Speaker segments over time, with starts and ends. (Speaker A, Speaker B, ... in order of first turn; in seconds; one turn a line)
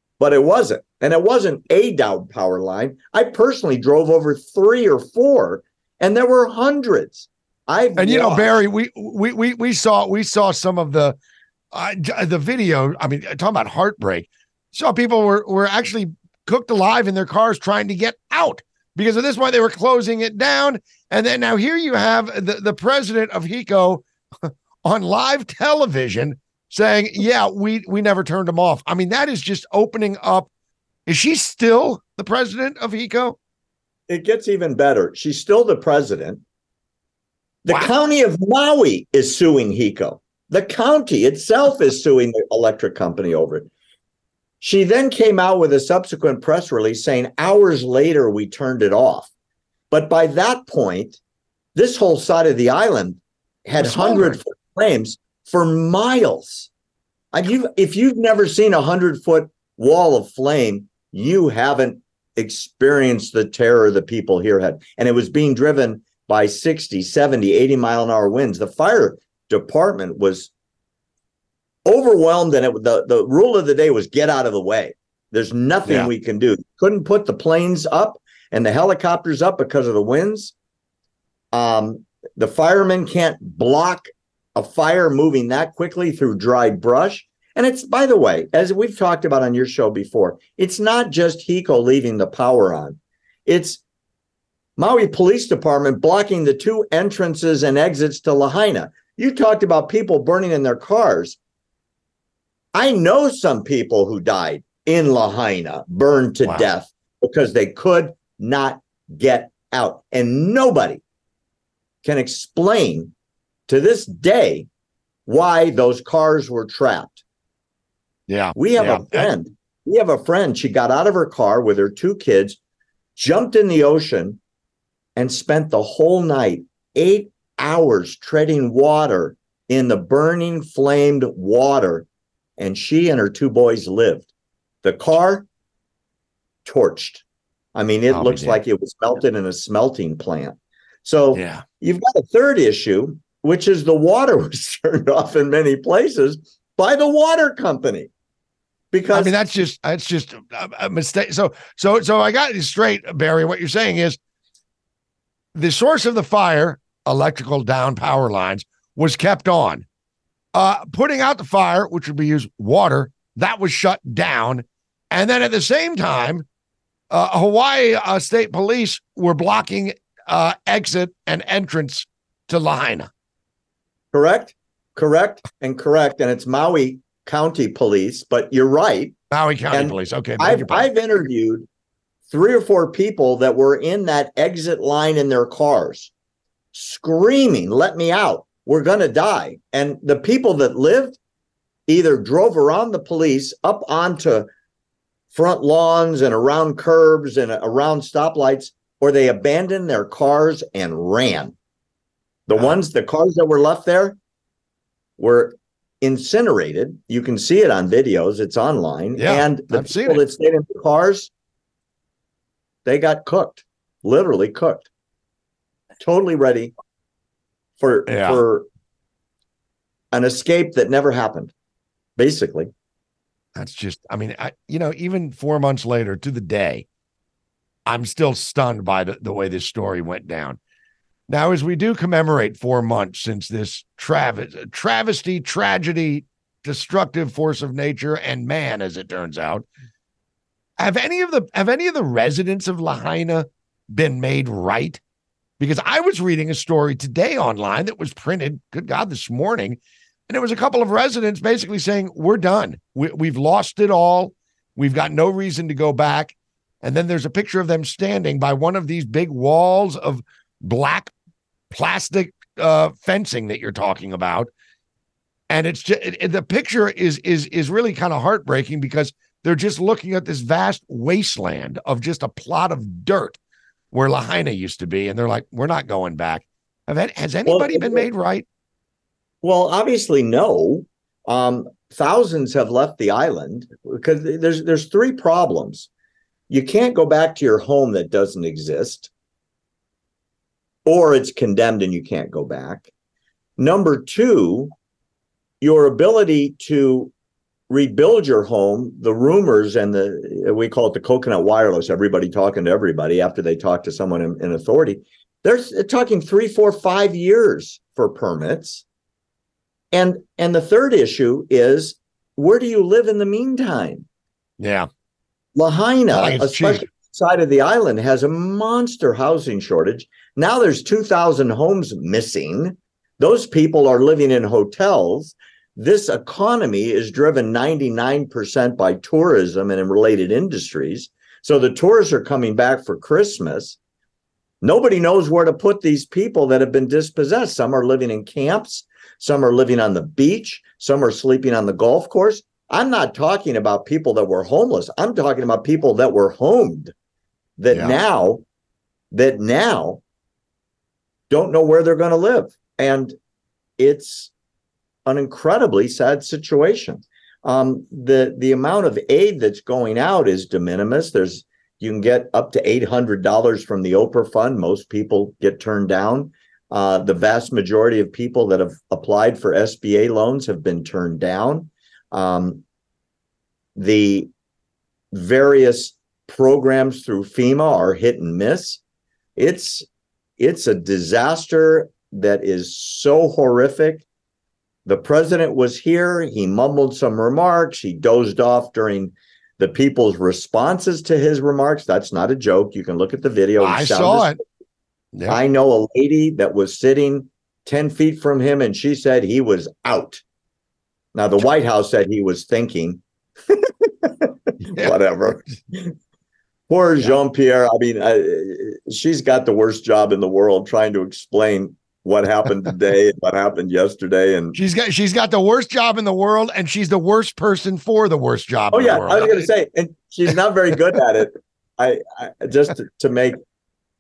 Speaker A: 0.2-8.6
Speaker B: 8.0-11.2
Speaker B: 11.7-30.5
Speaker B: 31.1-33.4
Speaker A: 34.1-36.4
Speaker A: 37.6-43.7
Speaker A: 44.6-49.3
Speaker A: 49.9-51.2
Speaker A: 51.8-56.7
Speaker B: 53.8-54.4
Speaker A: 57.3-70.5
Speaker A: 71.8-80.5
Speaker B: 75.8-76.1
Speaker A: 81.5-93.8
Speaker A: 94.8-101.4
Speaker A: 102.7-111.0
Speaker A: 112.0-113.1
Speaker A: 113.7-114.7
Speaker A: 115.3-117.2
Speaker B: 118.3-119.3
Speaker A: 118.5-122.6
Speaker A: 123.2-124.4
Speaker A: 125.2-132.1
Speaker A: 132.6-134.3
Speaker A: 134.8-135.5
Speaker A: 136.7-137.2
Speaker A: 137.8-148.1
Speaker B: 138.1-138.6
Speaker B: 141.3-141.6
Speaker A: 148.9-149.4
Speaker B: 149.1-154.2
Speaker B: 155.6-159.9
Speaker B: 160.5-166.4
Speaker B: 167.1-173.1
Speaker A: 174.1-179.2
Speaker B: 179.3-180.9
Speaker A: 179.7-181.7
Speaker A: 182.3-186.1
Speaker A: 186.7-191.2
Speaker A: 191.9-194.5
Speaker A: 195.3-201.6
Speaker A: 202.5-204.2
Speaker A: 205.2-211.3
Speaker B: 209.2-210.2
Speaker A: 212.8-214.9
Speaker A: 216.0-216.7
Speaker A: 217.8-218.7
Speaker B: 218.1-218.4
Speaker A: 220.1-221.5
Speaker A: 222.2-222.7
Speaker B: 223.6-226.8
Speaker B: 227.9-230.6
Speaker B: 231.3-239.7
Speaker B: 240.8-245.0
Speaker B: 245.6-261.1
Speaker B: 261.7-264.5
Speaker B: 265.5-273.4
Speaker B: 273.9-278.4
Speaker A: 277.5-278.1
Speaker A: 279.4-285.9
Speaker A: 286.5-289.1
Speaker A: 290.9-292.9
Speaker A: 293.6-294.7
Speaker A: 295.6-297.1
Speaker A: 297.7-308.9
Speaker A: 309.9-314.1
Speaker B: 314.6-314.9
Speaker A: 315.6-333.8
Speaker B: 316.1-316.9
Speaker A: 334.6-346.9
Speaker A: 347.6-348.4
Speaker B: 347.7-348.0
Speaker A: 349.1-350.0
Speaker A: 351.3-353.2
Speaker A: 353.8-354.3
Speaker A: 355.1-372.6
Speaker A: 373.8-374.3
Speaker A: 375.1-378.8
Speaker A: 379.4-384.1
Speaker A: 384.9-394.4
Speaker B: 393.6-394.4
Speaker B: 395.1-395.4
Speaker A: 395.3-400.2
Speaker A: 401.1-405.9
Speaker B: 404.7-405.0
Speaker A: 406.7-414.6
Speaker B: 414.5-419.5
Speaker A: 418.7-423.4